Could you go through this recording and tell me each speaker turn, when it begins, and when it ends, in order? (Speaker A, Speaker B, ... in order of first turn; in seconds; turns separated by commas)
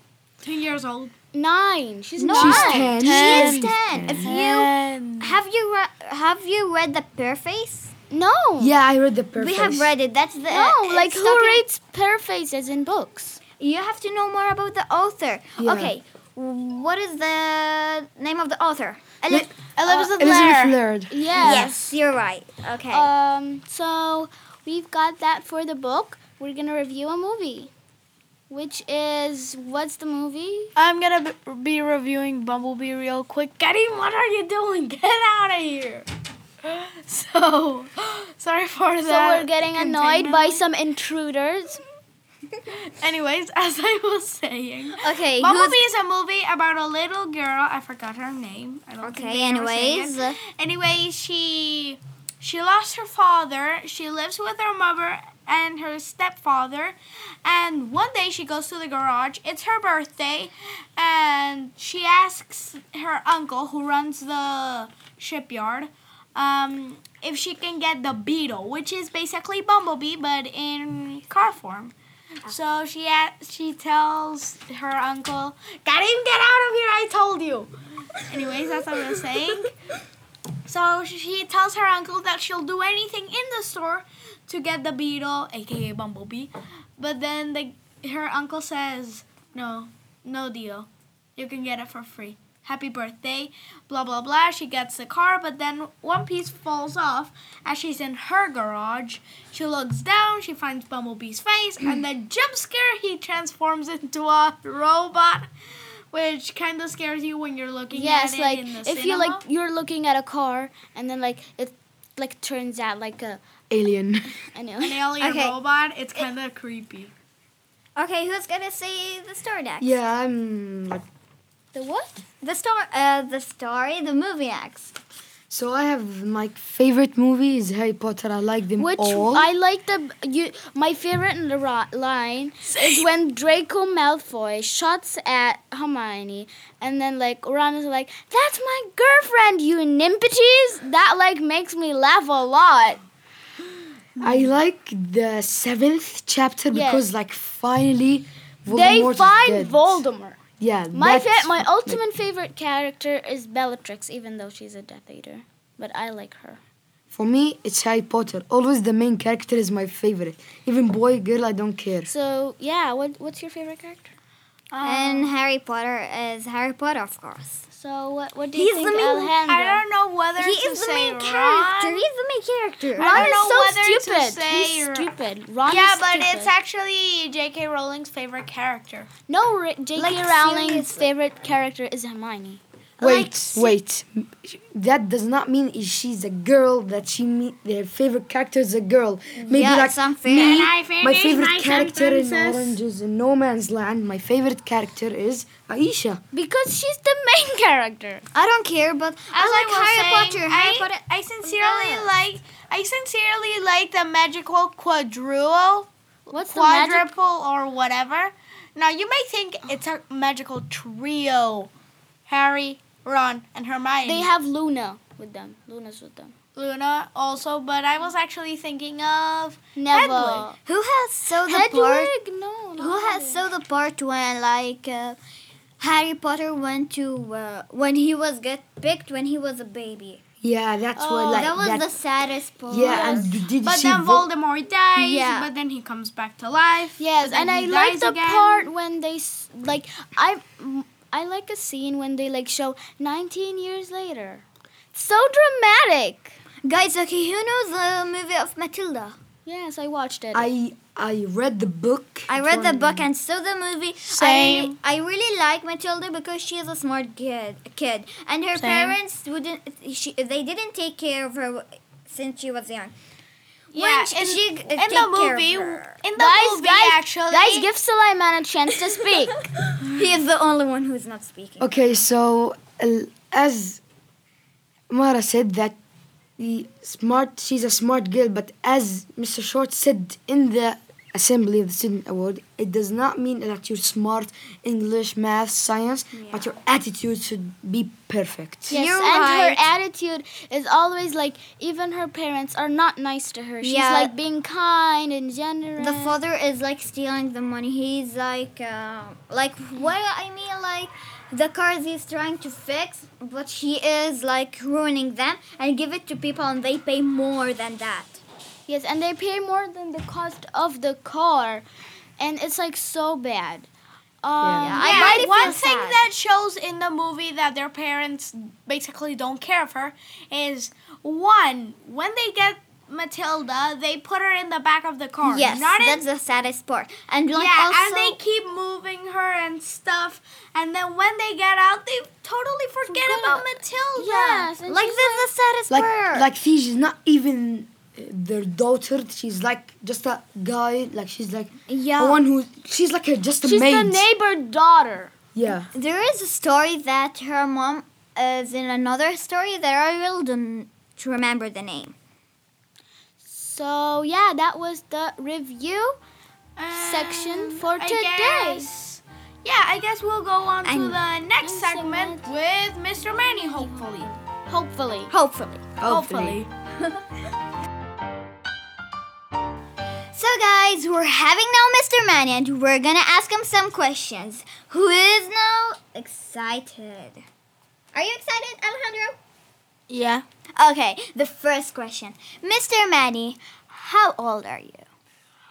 Speaker A: 0.4-1.1, Speaker B: 1.3-2.9, Speaker C: 2.2-7.9, Speaker D: 2.3-4.3, Speaker A: 3.0-5.4, Speaker B: 8.1-8.7, Speaker D: 8.6-9.9, Speaker C: 9.4-11.6, Speaker B: 10.5-13.4, Speaker C: 13.6-19.5, Speaker D: 15.6-15.9, Speaker D: 19.3-21.6, Speaker A: 19.8-20.8, Speaker B: 21.1-22.0, Speaker C: 21.4-23.1, Speaker B: 22.9-27.7, Speaker B: 28.5-30.7, Speaker A: 30.8-36.1, Speaker A: 36.6-40.6, Speaker B: 39.0-41.8, Speaker A: 42.7-71.9, Speaker C: 45.0-45.8, Speaker C: 49.0-50.4, Speaker A: 72.4-79.7, Speaker A: 80.7-105.5, Speaker A: 106.1-109.4, Speaker B: 107.9-113.4, Speaker D: 113.7-114.3, Speaker B: 114.5-115.0, Speaker A: 114.8-117.1, Speaker C: 115.2-115.5, Speaker C: 118.0-119.9, Speaker D: 119.8-121.0, Speaker B: 121.7-122.2, Speaker C: 122.4-124.9, Speaker D: 125.5-129.5, Speaker B: 128.8-143.0, Speaker A: 132.7-133.0, Speaker D: 144.2-150.0, Speaker B: 146.7-147.1, Speaker B: 148.7-150.4, Speaker D: 150.6-152.0, Speaker B: 150.9-156.6, Speaker D: 157.1-162.1, Speaker B: 162.1-164.1, Speaker A: 164.7-165.3, Speaker C: 164.8-167.6, Speaker B: 167.7-169.8, Speaker C: 168.5-169.4, Speaker A: 169.4-172.0, Speaker C: 170.4-173.3, Speaker A: 173.0-175.1, Speaker B: 173.0-176.5, Speaker A: 175.7-179.1, Speaker B: 179.3-182.6, Speaker C: 179.9-181.1, Speaker D: 183.0-196.2, Speaker C: 183.0-183.3, Speaker A: 183.0-183.5, Speaker C: 189.5-190.7, Speaker A: 190.3-192.8, Speaker B: 196.3-198.2, Speaker C: 198.3-202.1, Speaker A: 199.3-211.7, Speaker B: 206.3-207.1, Speaker A: 212.3-214.3, Speaker B: 214.0-216.3, Speaker A: 216.6-220.5, Speaker B: 219.8-220.6, Speaker C: 220.6-222.1, Speaker B: 221.4-223.4, Speaker C: 222.8-225.2, Speaker C: 225.8-230.2, Speaker D: 230.4-231.9, Speaker B: 230.9-231.5, Speaker C: 231.3-233.3, Speaker D: 232.7-234.3, Speaker A: 232.8-238.7, Speaker B: 235.0-235.5, Speaker B: 237.0-246.4, Speaker C: 246.6-249.2, Speaker B: 249.4-250.5, Speaker D: 250.3-253.1, Speaker C: 252.3-262.9, Speaker A: 254.0-254.8, Speaker A: 258.5-259.0, Speaker C: 263.7-266.0, Speaker A: 263.7-267.7, Speaker B: 266.1-269.4, Speaker C: 269.7-271.7, Speaker D: 271.6-273.8, Speaker D: 274.9-275.8, Speaker D: 276.4-288.8, Speaker C: 286.1-286.5, Speaker C: 288.7-289.7, Speaker B: 288.7-296.2, Speaker C: 293.6-294.1, Speaker C: 295.8-308.2, Speaker B: 308.7-311.6, Speaker B: 312.2-313.7, Speaker B: 314.2-315.5, Speaker D: 314.4-314.8, Speaker C: 314.6-316.0, Speaker A: 314.8-326.0, Speaker C: 325.2-328.2, Speaker A: 327.3-334.5, Speaker C: 333.0-333.4, Speaker B: 334.0-335.3, Speaker C: 334.6-336.3, Speaker D: 335.7-344.0, Speaker C: 341.7-342.2, Speaker B: 343.4-345.1, Speaker D: 345.3-345.7, Speaker C: 345.7-351.9, Speaker B: 353.2-356.0, Speaker A: 356.6-364.1, Speaker B: 356.7-358.7, Speaker C: 360.6-361.0, Speaker B: 361.4-362.3, Speaker B: 363.1-365.1, Speaker C: 365.1-365.6, Speaker D: 365.8-366.4, Speaker A: 365.8-366.5, Speaker C: 370.1-377.2, Speaker C: 377.9-379.2, Speaker A: 379.9-380.2, Speaker C: 380.6-384.8